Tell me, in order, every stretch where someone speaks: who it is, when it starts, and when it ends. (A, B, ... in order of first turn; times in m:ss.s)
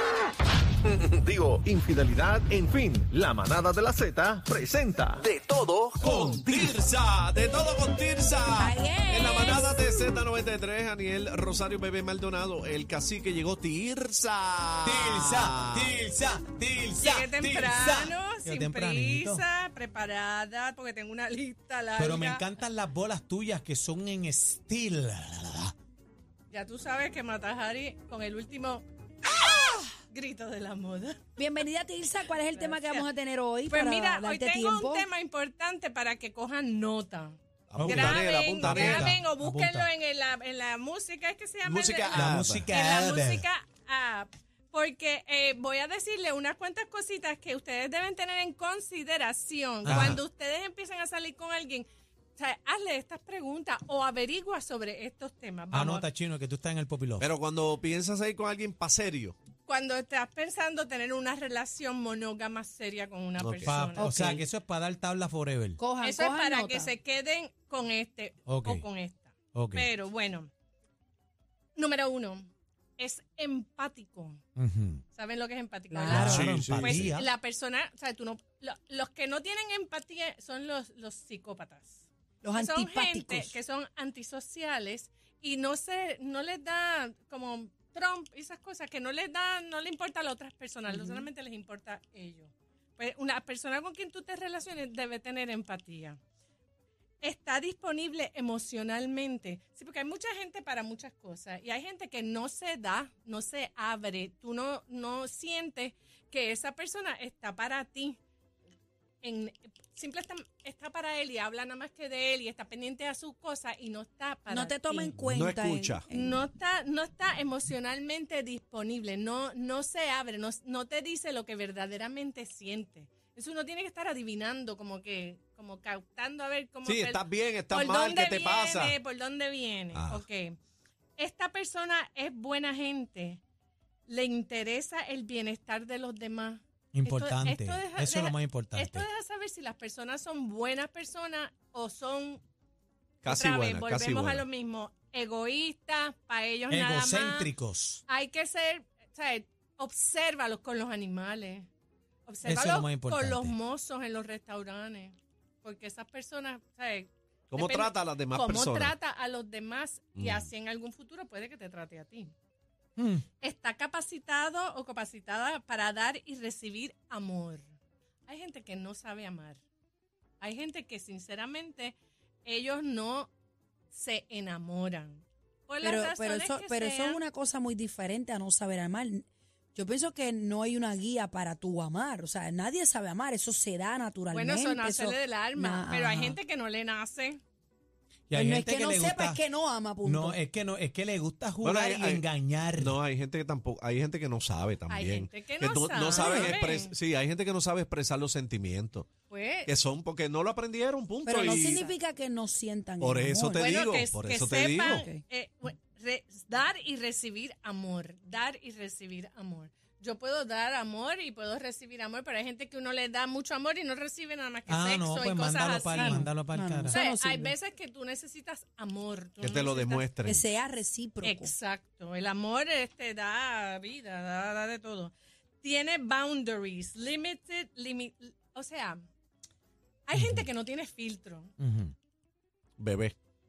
0:00.8-0:06.6 A
0:06.0-0:15.9 B
0:06.1-0:06.4 C
0:08.6-0:09.8 D
0:14.8-0:19.4 C
0:17.0-0:22.4 E
0:22.0-0:25.7 C
0:26.5-0:31.2 E
0:31.4-0:35.1 D
0:32.4-0:33.1 E
0:33.7-0:56.1 E
0:37.7-0:39.2 B
0:37.8-0:39.9 C
0:41.6-0:42.7 B
0:42.1-0:43.4 C
0:49.8-0:50.2 C
0:49.8-0:50.2 B
0:55.7-0:57.3 C
0:57.2-0:59.4 B
0:59.7-1:04.1 E
1:03.4-1:03.7 B
1:03.7-1:05.8 C
1:04.0-1:04.4 D
1:05.8-1:06.9 D
1:06.0-1:10.5 E
1:08.5-1:08.8 C
1:09.5-1:09.9 C
1:11.8-1:14.4 E
1:14.6-1:15.0 C
1:15.1-1:22.0 E
1:15.9-1:16.5 D
1:16.1-1:17.3 C
1:16.1-1:17.2 B
1:22.4-1:23.6 D
1:22.6-1:36.2 E
1:30.9-1:31.2 D
1:37.2-1:48.2 E
1:49.2-1:55.1 E
1:54.5-1:56.4 D
1:55.2-1:56.0 B
1:56.1-2:07.2 E
2:06.8-2:09.0 B
2:07.7-2:10.6 E
2:09.9-2:10.2 B
2:11.2-2:13.4 E
2:14.1-2:22.4 E
2:16.9-2:19.1 C
2:23.2-2:24.4 B
2:23.3-2:27.5 E
2:26.7-2:28.0 C
2:28.1-2:31.7 E
2:32.3-2:42.3 E
2:32.4-2:33.6 C
2:37.5-2:39.0 B
2:40.2-2:40.5 B
2:43.0-2:43.2 C
2:43.4-2:47.7 E
2:48.3-2:49.6 E
2:50.4-2:53.3 E
2:53.9-2:57.2 E
2:55.8-3:06.4 D
3:04.3-3:07.4 E
3:08.3-3:09.4 C
3:08.3-3:10.4 D
3:10.0-3:13.0 C
3:11.6-3:19.1 B
3:14.9-3:16.9 E
3:16.2-3:16.6 D
3:19.3-3:19.7 E
3:19.6-3:21.9 B
3:21.2-3:23.7 D
3:21.6-3:21.9 E
3:23.0-3:25.1 B
3:23.6-3:36.3 E
3:24.8-3:25.2 D
3:34.7-3:37.0 C
3:36.0-3:37.5 D
3:36.9-3:40.0 E
3:39.4-3:40.4 B
3:40.2-3:41.5 D
3:41.2-3:49.0 E
3:50.1-3:51.5 E
3:50.2-3:50.5 C
3:51.6-3:51.9 C
3:52.8-3:53.2 B